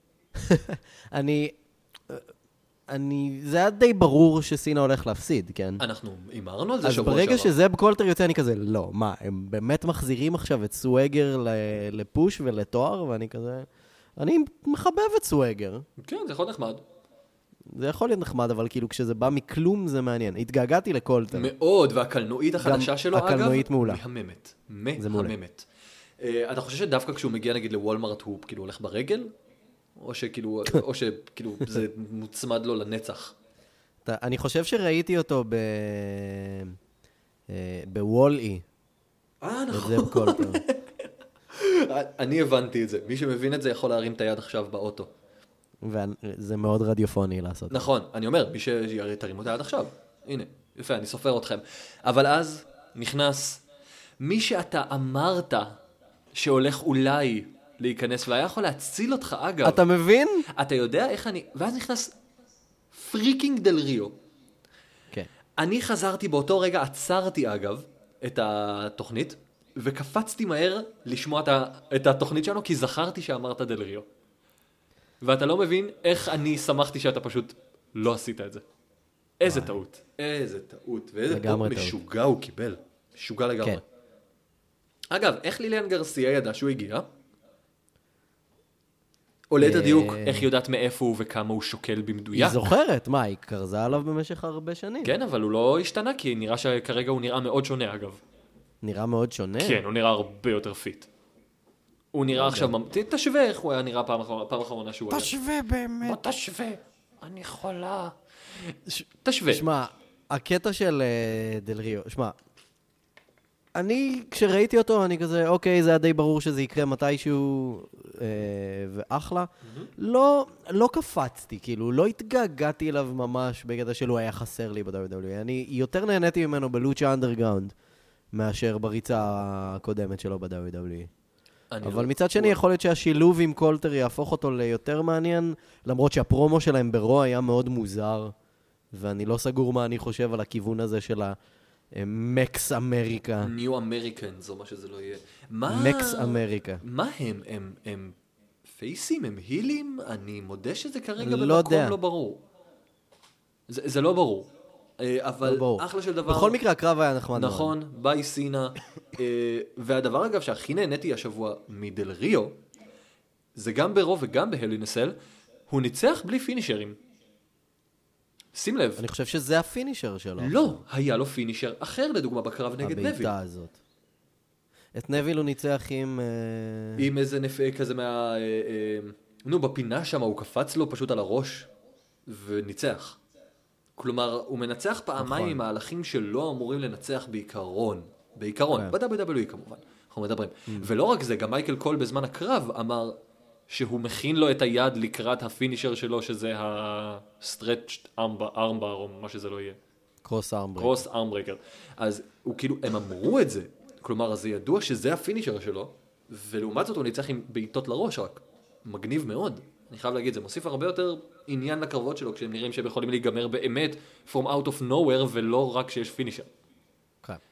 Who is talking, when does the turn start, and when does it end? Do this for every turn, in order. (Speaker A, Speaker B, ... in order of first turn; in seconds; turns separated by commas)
Speaker A: 0.4-1.6, Speaker A: 2.9-5.8, Speaker B: 5.8-7.5, Speaker A: 6.8-15.8, Speaker B: 16.0-16.8, Speaker A: 17.7-21.5, Speaker B: 21.3-25.7, Speaker A: 22.6-24.0, Speaker A: 25.0-25.4, Speaker B: 26.2-29.3, Speaker B: 30.0-33.4, Speaker A: 34.0-36.8, Speaker A: 37.5-38.6, Speaker B: 39.4-45.1, Speaker A: 39.7-40.6, Speaker A: 45.8-47.9, Speaker B: 47.7-53.6, Speaker B: 54.2-55.8, Speaker B: 56.4-59.8, Speaker A: 59.6-60.5, Speaker B: 60.5-62.1, Speaker B: 62.9-64.2, Speaker B: 65.6-74.1, Speaker B: 75.2-78.6, Speaker B: 79.4-83.8, Speaker A: 79.5-79.8, Speaker A: 81.3-82.0, Speaker B: 85.1-87.1, Speaker B: 89.5-92.6, Speaker A: 89.6-90.5, Speaker A: 92.3-95.2, Speaker B: 95.0-98.2, Speaker A: 98.8-99.8, Speaker B: 99.6-101.1, Speaker B: 102.1-105.3, Speaker A: 102.3-102.7, Speaker A: 105.1-106.2, Speaker B: 106.0-109.7, Speaker A: 109.5-112.4, Speaker A: 113.7-127.7, Speaker B: 119.7-119.9, Speaker A: 128.3-131.1, Speaker B: 131.7-132.6, Speaker A: 131.8-138.3, Speaker A: 138.9-141.4, Speaker A: 141.9-143.5, Speaker B: 143.4-152.4, Speaker A: 145.7-146.8, Speaker A: 151.2-152.0, Speaker B: 153.7-156.6, Speaker A: 155.4-157.8, Speaker B: 157.3-162.6, Speaker B: 163.6-165.2, Speaker B: 165.7-167.0, Speaker B: 168.5-169.1, Speaker A: 169.0-170.8, Speaker B: 170.4-173.3, Speaker A: 172.8-173.8, Speaker A: 174.9-177.1, Speaker B: 177.0-181.7, Speaker B: 182.3-183.2, Speaker B: 184.0-193.2, Speaker A: 185.2-185.6, Speaker B: 193.7-199.8, Speaker A: 200.2-201.1, Speaker B: 200.8-216.5